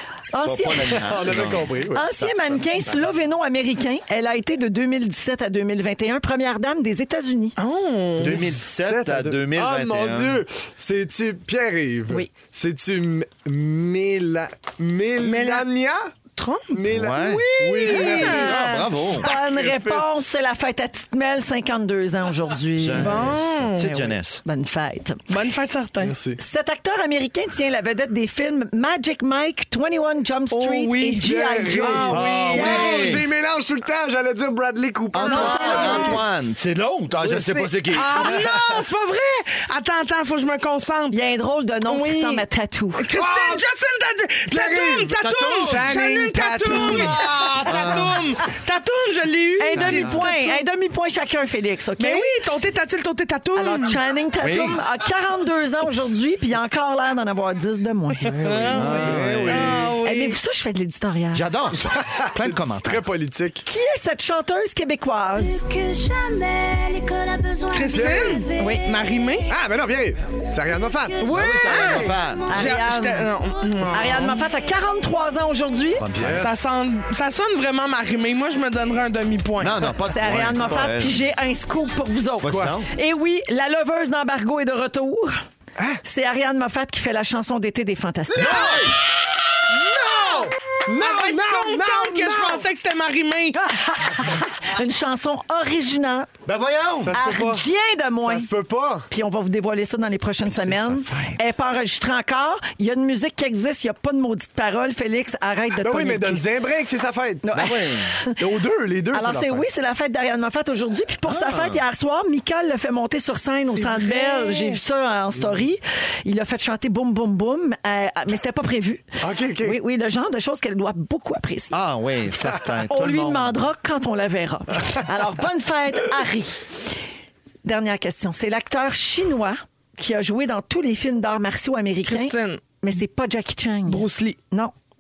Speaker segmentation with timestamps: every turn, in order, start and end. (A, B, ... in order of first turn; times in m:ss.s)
0:00.3-0:01.0 A
0:00.4-0:02.9 B
0:00.9-0:02.0 C
0:01.9-0:07.5 A
0:07.6-0:08.4 D
0:08.2-0:10.4 B
0:08.2-0:16.1 C
0:15.2-0:15.7 D
0:16.4-0:18.9 D
0:16.7-0:20.1 C
0:16.9-0:19.3 B
0:17.8-0:18.4 A
0:19.1-0:23.2 A
0:22.8-0:24.4 B
0:23.0-0:23.9 D
0:23.9-0:25.2 A
0:25.3-0:26.2 D
0:26.0-0:26.4 C
0:26.4-0:32.8 A
0:30.5-0:33.2 D
0:31.2-0:36.2 C
0:32.1-0:33.2 B
0:35.1-0:38.3 B
0:35.2-0:36.2 A
0:35.3-0:36.2 D
0:37.2-0:41.2 D
0:38.2-0:38.6 C
0:41.1-0:43.0 A
0:41.9-0:42.4 D
0:43.0-0:50.6 D
0:43.1-0:43.6 C
0:44.5-0:47.2 C
0:45.0-0:46.0 B
0:46.7-0:48.3 B
0:49.6-0:52.3 A
0:49.7-0:50.2 B
0:52.0-0:54.0 D
0:53.5-0:58.3 A
0:54.4-0:54.8 B
0:58.2-0:59.9 C
0:58.4-1:00.4 D
0:58.6-0:59.9 B
0:59.9-1:01.4 A
1:01.3-1:03.0 B
1:01.8-1:03.6 C
1:03.7-1:05.6 A
1:05.6-1:08.5 E
1:07.7-1:09.5 D
1:07.9-1:08.5 C
1:08.5-1:08.9 A
1:09.5-1:11.8 C
1:11.2-1:13.3 A
1:11.3-1:12.7 B
1:11.6-1:14.4 D
1:13.9-1:16.0 A
1:16.0-1:16.5 B
1:16.2-1:16.6 C
1:16.4-1:20.0 D
1:19.6-1:21.2 B
1:20.1-1:25.3 A
1:22.4-1:22.9 B
1:22.5-1:22.8 C
1:26.0-1:28.7 A
1:28.3-1:28.9 C
1:28.3-1:29.0 B
1:29.7-1:32.6 C
1:30.0-1:30.5 B
1:31.0-1:33.6 D
1:33.5-1:36.3 A
1:36.4-1:37.2 B
1:37.0-1:37.6 C
1:37.1-1:38.5 A
1:38.2-1:39.1 C
1:39.1-1:46.4 A
1:40.6-1:41.3 B
1:45.8-1:47.7 C
1:47.4-1:48.4 A
1:47.5-1:48.1 B
1:48.4-1:49.6 C
1:49.1-1:59.1 A
1:51.2-1:51.8 B
1:53.7-1:54.8 D
1:59.2-1:59.8 C
1:59.6-2:01.8 A
2:01.7-2:03.6 B
2:02.9-2:06.6 A
2:07.6-2:14.7 A
2:12.1-2:12.6 D
2:13.9-2:14.4 D